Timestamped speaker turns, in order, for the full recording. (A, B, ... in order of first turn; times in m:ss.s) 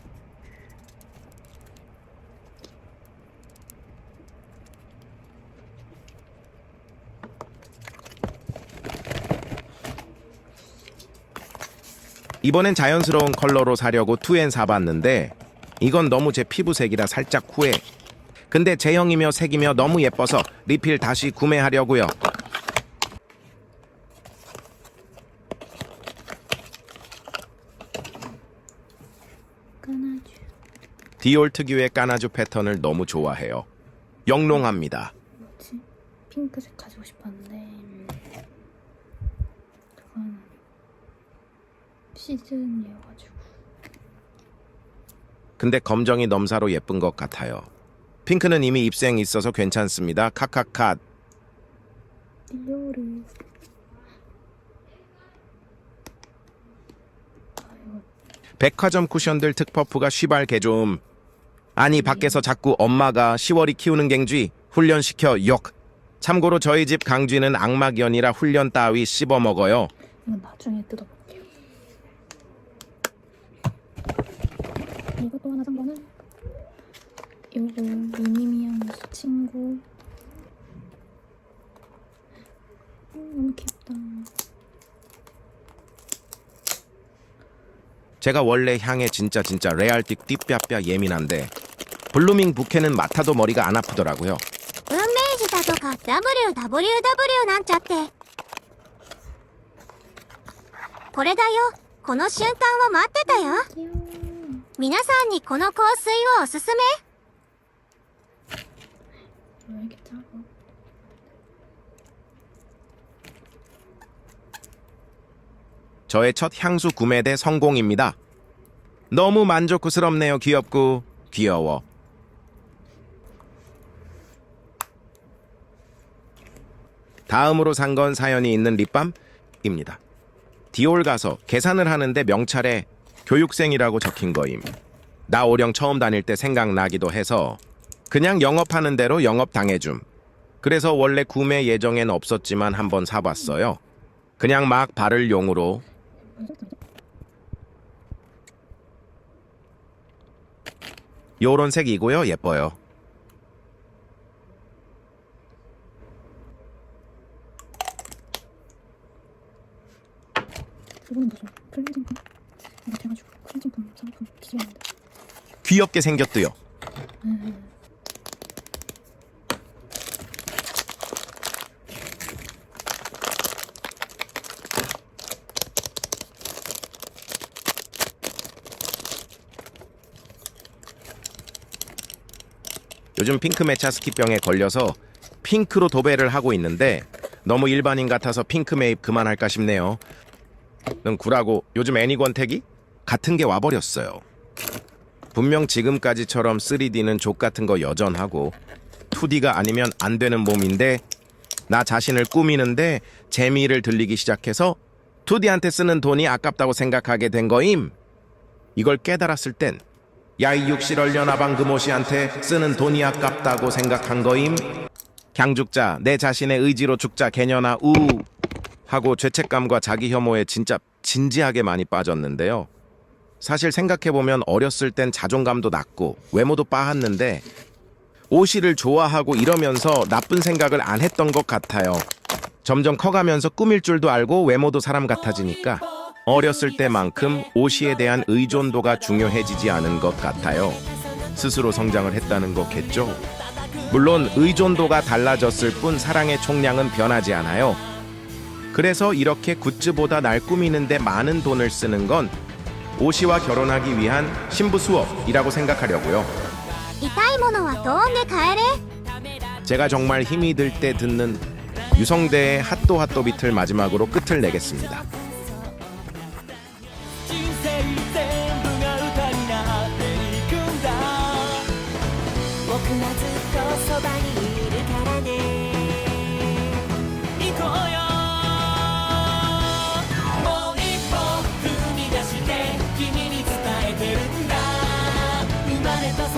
0:12.4-0:17.8 A
0:18.5-0:22.2 A
0:29.8-0:30.5 B
0:31.2-0:33.7 A
0:34.3-0:35.1 A
0:35.4-0:38.2 B
0:40.0-0:40.6 B
0:42.1-0:43.5 B
0:45.6-0:47.7 A
0:48.3-0:51.0 A
0:52.5-0:53.3 B
0:57.6-0:58.1 B
0:58.6-1:01.0 A
1:01.8-1:09.9 A
1:02.0-1:02.4 B
1:10.2-1:11.5 B
1:15.2-1:16.1 B
1:17.5-1:19.8 B
1:23.1-1:24.3 B
1:28.2-1:31.5 A
1:32.1-1:34.4 A
1:34.9-1:38.1 C
1:41.2-1:43.7 C
1:43.3-1:44.7 B
1:44.8-1:47.0 C
1:49.6-1:50.5 B
1:56.1-1:58.2 A
1:59.1-2:01.8 A
2:07.3-2:10.0 A
2:10.7-2:14.7 A
2:15.3-2:20.0 A
2:20.6-2:23.8 A
2:24.4-2:25.8 A
2:26.2-2:26.8 B
2:31.4-2:32.8 A
2:41.1-2:42.2 B
2:42.8-2:44.8 B
2:45.6-2:46.6 A
2:47.2-2:47.7 B
3:03.2-3:10.0 A
3:11.0-3:14.2 A
3:15.3-3:18.6 A
3:19.1-3:21.0 A
3:21.7-3:28.0 A
3:28.8-3:29.8 A
3:30.4-3:34.7 A
3:35.4-3:38.3 A
3:38.9-3:42.7 A
3:43.4-3:47.5 A
3:48.3-3:52.1 A
3:52.6-4:03.2 A
4:03.9-4:07.8 A
4:08.7-4:12.3 A
4:13.0-4:16.3 A
4:17.0-4:18.8 C
4:19.6-4:25.1 A